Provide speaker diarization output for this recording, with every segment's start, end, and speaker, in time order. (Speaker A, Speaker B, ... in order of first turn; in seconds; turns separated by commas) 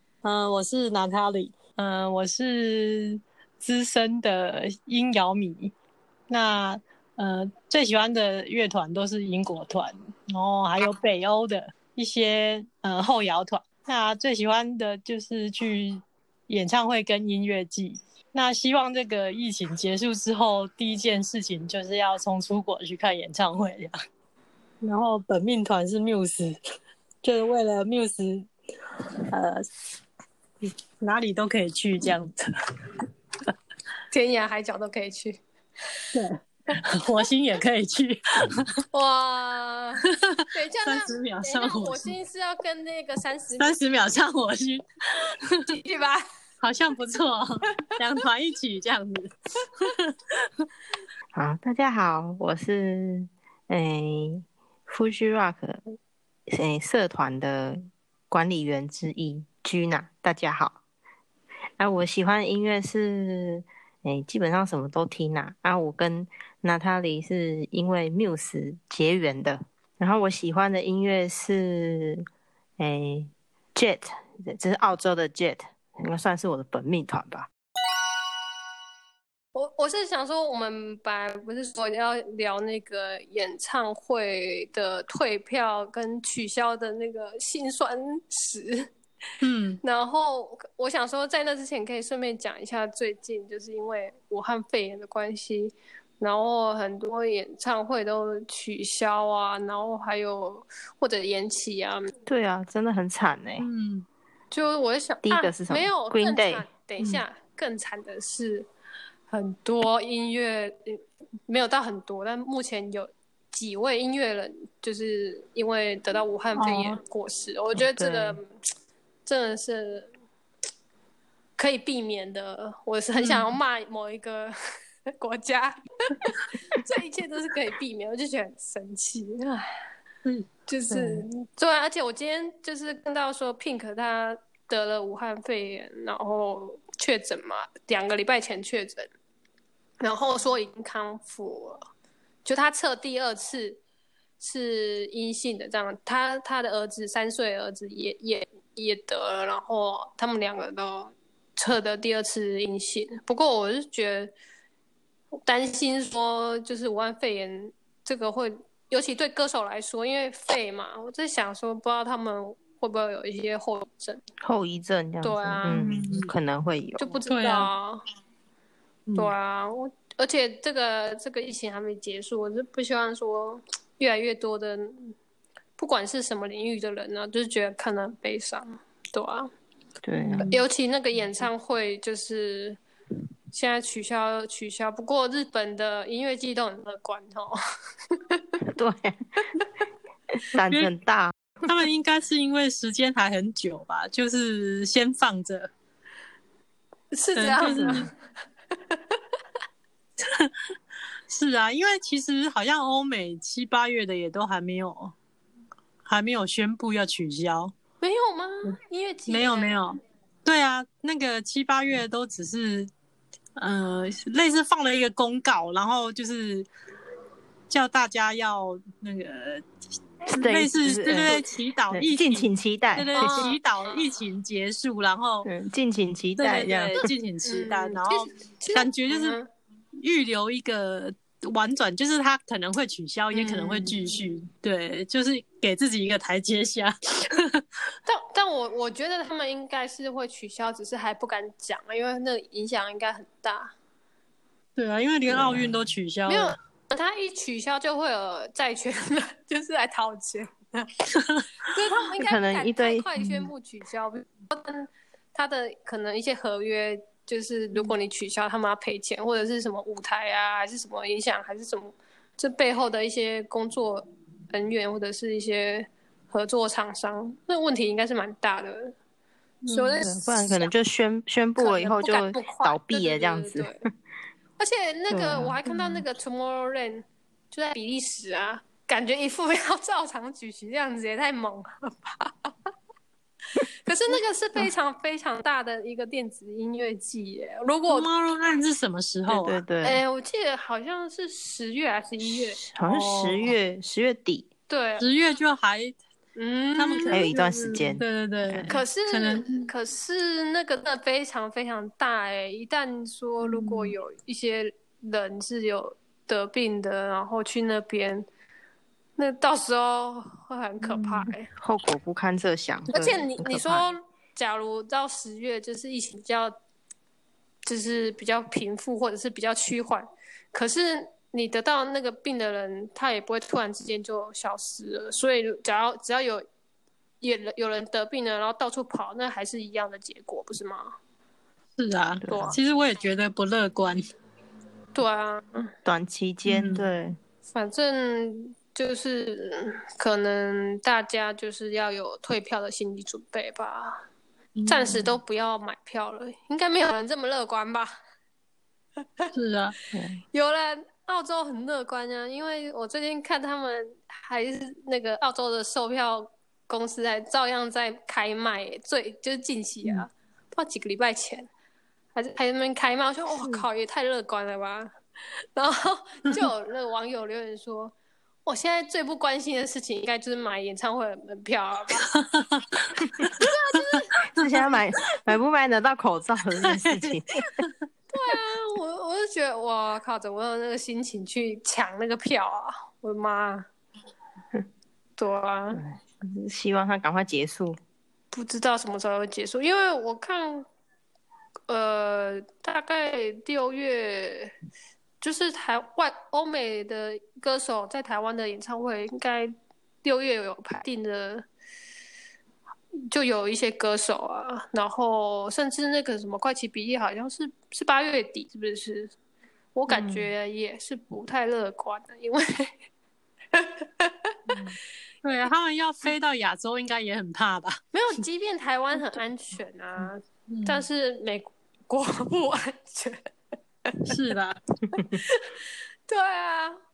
Speaker A: 0.2-5.7, Speaker A: 6.3-23.9, Speaker A: 24.8-26.6, Speaker A: 27.2-28.5, Speaker A: 29.3-29.6, Speaker A: 31.0-32.5, Speaker B: 34.1-35.4, Speaker A: 36.1-38.6, Speaker B: 38.9-43.8, Speaker A: 40.8-42.1, Speaker A: 43.6-45.6, Speaker B: 45.7-46.2, Speaker A: 46.6-50.4, Speaker C: 51.3-55.8, Speaker C: 56.5-60.8, Speaker C: 61.8-72.2, Speaker C: 72.8-77.5, Speaker B: 79.5-88.9, Speaker A: 89.4-89.8, Speaker B: 89.8-102.1, Speaker C: 102.3-103.7, Speaker A: 103.6-104.0, Speaker B: 104.5-108.7, Speaker C: 105.2-106.7, Speaker B: 109.3-118.5, Speaker A: 116.5-117.0, Speaker C: 117.7-118.4, Speaker B: 119.2-120.1, Speaker B: 121.6-124.5, Speaker A: 123.2-123.5, Speaker B: 125.2-129.7, Speaker B: 130.7-139.1, Speaker C: 130.9-131.2, Speaker B: 140.0-141.8, Speaker B: 142.4-143.8, Speaker B: 144.4-154.3, Speaker B: 155.4-164.2, Speaker C: 164.4-167.2, Speaker B: 165.2-165.8, Speaker A: 165.7-166.3, Speaker B: 167.0-168.0, Speaker A: 167.3-167.7, Speaker A: 169.1-169.3, Speaker B: 169.1-175.1, Speaker B: 175.8-179.5, Speaker C: 180.0-180.6, Speaker B: 180.4-182.8, Speaker B: 183.5-187.6, Speaker C: 188.6-189.2, Speaker C: 190.5-191.3, Speaker A: 191.6-195.7, Speaker B: 197.1-198.1, Speaker A: 197.3-198.1, Speaker C: 197.6-198.1, Speaker A: 200.2-200.5, Speaker A: 201.3-205.1, Speaker A: 206.0-207.7, Speaker B: 208.0-209.8, Speaker A: 209.3-212.9, Speaker A: 213.6-216.7, Speaker A: 217.7-219.6, Speaker A: 220.3-225.5, Speaker C: 220.3-221.4, Speaker C: 221.9-223.5, Speaker B: 223.1-223.6, Speaker C: 225.4-227.0, Speaker A: 226.4-229.4, Speaker B: 227.4-229.5, Speaker A: 230.0-237.6, Speaker B: 233.3-234.0, Speaker B: 238.1-243.7, Speaker A: 244.8-246.5, Speaker B: 246.3-251.0, Speaker A: 251.1-251.4, Speaker B: 251.7-268.9, Speaker C: 252.2-253.1, Speaker A: 269.6-270.0, Speaker B: 269.7-270.7, Speaker C: 270.0-273.7, Speaker B: 271.6-273.9, Speaker B: 274.6-282.5, Speaker C: 275.1-276.0, Speaker B: 283.6-288.1, Speaker A: 287.9-289.6, Speaker C: 289.3-290.0, Speaker B: 289.8-292.6, Speaker C: 292.3-294.5, Speaker A: 292.9-293.5, Speaker B: 294.7-295.1, Speaker A: 295.0-296.0, Speaker B: 296.3-297.2, Speaker A: 296.8-299.7, Speaker C: 297.1-298.8, Speaker B: 298.7-308.2, Speaker A: 303.4-303.9, Speaker B: 309.1-311.5, Speaker C: 311.5-313.9, Speaker B: 312.9-316.5, Speaker B: 317.6-326.4, Speaker B: 327.2-330.9, Speaker A: 331.8-334.0, Speaker C: 332.2-332.6, Speaker B: 332.3-332.6, Speaker B: 334.9-335.7, Speaker C: 335.8-337.2, Speaker A: 336.4-336.8, Speaker B: 337.5-344.0, Speaker A: 344.6-345.1, Speaker B: 344.7-347.9, Speaker A: 349.3-349.7, Speaker C: 349.9-350.2, Speaker B: 350.3-361.5, Speaker B: 362.1-364.9, Speaker B: 365.5-367.9, Speaker B: 368.4-372.1, Speaker B: 373.3-374.3, Speaker C: 374.3-377.4, Speaker A: 376.6-377.7, Speaker B: 378.1-383.7, Speaker B: 385.2-385.8, Speaker C: 385.7-387.8, Speaker B: 388.3-390.6, Speaker B: 391.7-394.5, Speaker B: 395.2-401.5, Speaker B: 403.1-409.1, Speaker B: 409.7-412.8, Speaker C: 409.9-410.3, Speaker B: 413.5-414.3, Speaker A: 414.5-417.8, Speaker B: 417.9-423.2, Speaker A: 420.5-420.8, Speaker A: 424.0-424.6, Speaker B: 424.9-426.8